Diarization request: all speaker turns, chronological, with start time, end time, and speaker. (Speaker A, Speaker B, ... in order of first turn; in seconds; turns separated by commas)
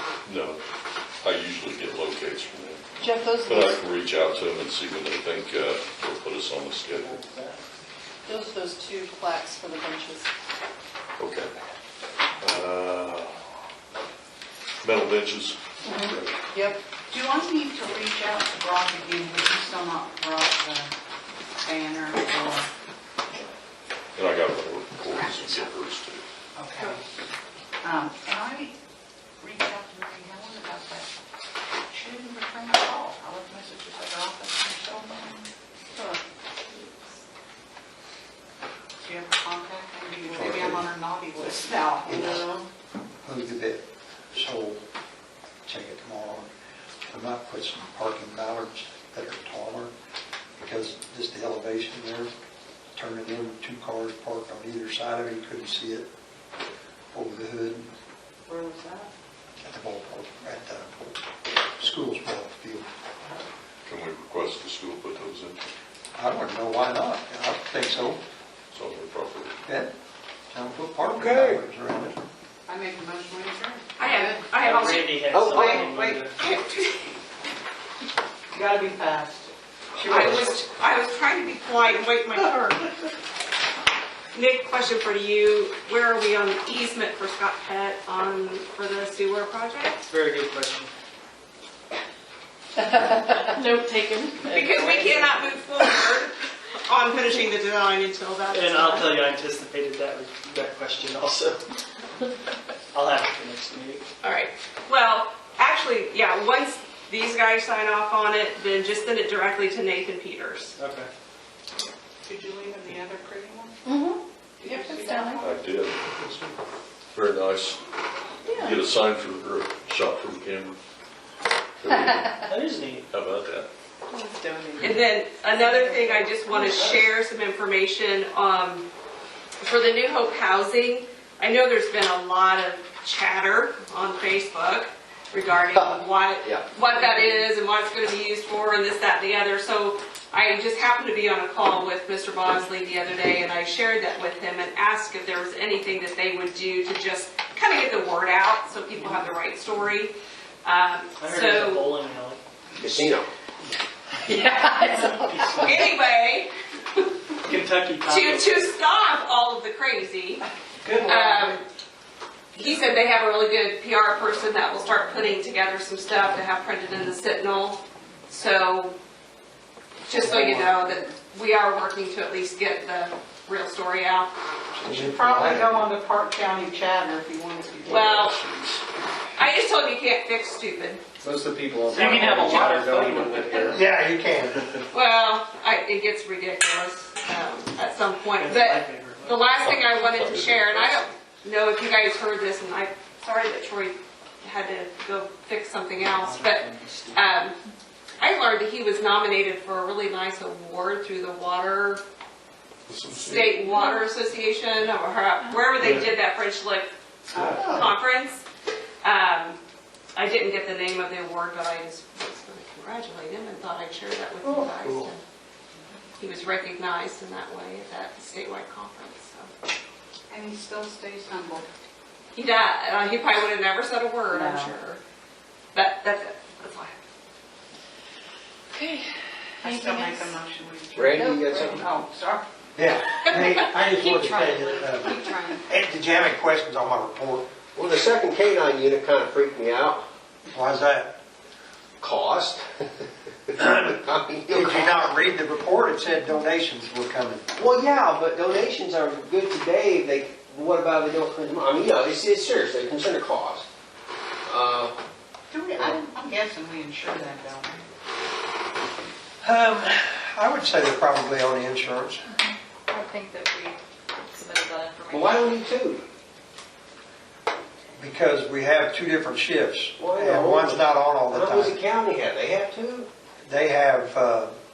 Speaker A: 0.2-0.6, Speaker A: 1.2-7.2, Speaker B: 3.0-3.7, Speaker B: 8.3-10.2, Speaker A: 11.2-11.5, Speaker A: 12.4-13.4, Speaker A: 14.8-16.4, Speaker C: 17.1-20.9, Speaker C: 21.6-22.7, Speaker A: 24.2-26.2, Speaker C: 26.6-27.0, Speaker C: 27.8-28.8, Speaker C: 29.4-31.1, Speaker C: 31.9-35.5, Speaker C: 39.0-42.5, Speaker D: 40.3-40.9, Speaker D: 42.0-42.5, Speaker D: 43.2-44.8, Speaker D: 45.7-46.5, Speaker D: 47.1-49.9, Speaker D: 50.6-52.3, Speaker D: 53.0-56.1, Speaker D: 57.1-57.9, Speaker C: 58.5-59.1, Speaker D: 59.6-61.2, Speaker D: 61.8-62.9, Speaker A: 63.9-65.6, Speaker D: 66.2-68.2, Speaker A: 68.7-69.6, Speaker D: 69.7-69.9, Speaker D: 70.5-72.2, Speaker E: 71.2-71.6, Speaker C: 72.7-74.9, Speaker F: 74.0-75.3, Speaker G: 74.6-76.4, Speaker E: 75.3-76.2, Speaker C: 75.5-75.8, Speaker F: 76.4-77.2, Speaker C: 78.5-80.5, Speaker F: 80.1-82.9, Speaker F: 84.3-90.0, Speaker G: 90.1-90.9, Speaker G: 93.3-93.5, Speaker B: 93.6-94.3, Speaker G: 94.3-95.6, Speaker F: 94.5-99.3, Speaker G: 98.5-101.6, Speaker G: 102.9-104.0, Speaker F: 104.2-110.8, Speaker G: 110.8-111.1, Speaker C: 112.2-113.8, Speaker B: 113.9-114.2, Speaker C: 114.6-115.5, Speaker B: 114.8-115.4, Speaker A: 115.4-116.5, Speaker A: 117.1-117.8, Speaker A: 118.5-120.8, Speaker A: 121.8-122.5, Speaker G: 122.5-123.0, Speaker A: 123.1-123.7, Speaker B: 124.3-124.7, Speaker F: 124.8-128.9, Speaker G: 126.6-127.0, Speaker F: 129.6-152.0, Speaker E: 135.7-136.7, Speaker G: 151.2-152.4, Speaker E: 152.8-153.3, Speaker G: 154.3-156.0, Speaker F: 155.6-156.5, Speaker G: 157.4-158.7, Speaker F: 158.1-160.4, Speaker G: 160.8-161.6, Speaker F: 161.0-161.7, Speaker F: 162.5-169.0, Speaker F: 170.1-174.3, Speaker D: 174.8-175.8, Speaker C: 174.8-178.3, Speaker F: 177.9-178.4, Speaker A: 177.9-178.8, Speaker F: 179.4-181.0, Speaker H: 181.2-183.8, Speaker G: 181.9-183.6, Speaker D: 183.7-184.6, Speaker F: 184.9-197.6, Speaker G: 188.4-189.5, Speaker A: 189.6-191.1, Speaker G: 196.0-197.4, Speaker F: 198.2-202.0, Speaker A: 202.9-203.8, Speaker F: 203.1-208.4, Speaker F: 209.0-209.6, Speaker F: 210.2-215.2, Speaker F: 216.2-219.5, Speaker C: 220.3-221.7, Speaker F: 222.3-225.0, Speaker C: 224.3-224.8, Speaker F: 225.7-227.0, Speaker C: 229.6-232.4, Speaker B: 229.8-230.2, Speaker E: 230.9-231.8, Speaker B: 231.4-231.6, Speaker D: 232.8-237.5, Speaker B: 234.0-235.6, Speaker E: 237.7-240.0, Speaker D: 240.5-241.1, Speaker E: 242.0-245.3, Speaker D: 243.6-243.9, Speaker D: 244.5-247.4, Speaker E: 247.6-253.7, Speaker E: 254.4-254.9, Speaker C: 255.5-257.9, Speaker D: 259.4-262.2, Speaker B: 262.9-263.8, Speaker B: 264.3-265.4, Speaker E: 265.1-266.0, Speaker D: 268.0-271.8, Speaker E: 270.0-273.1, Speaker D: 273.4-274.6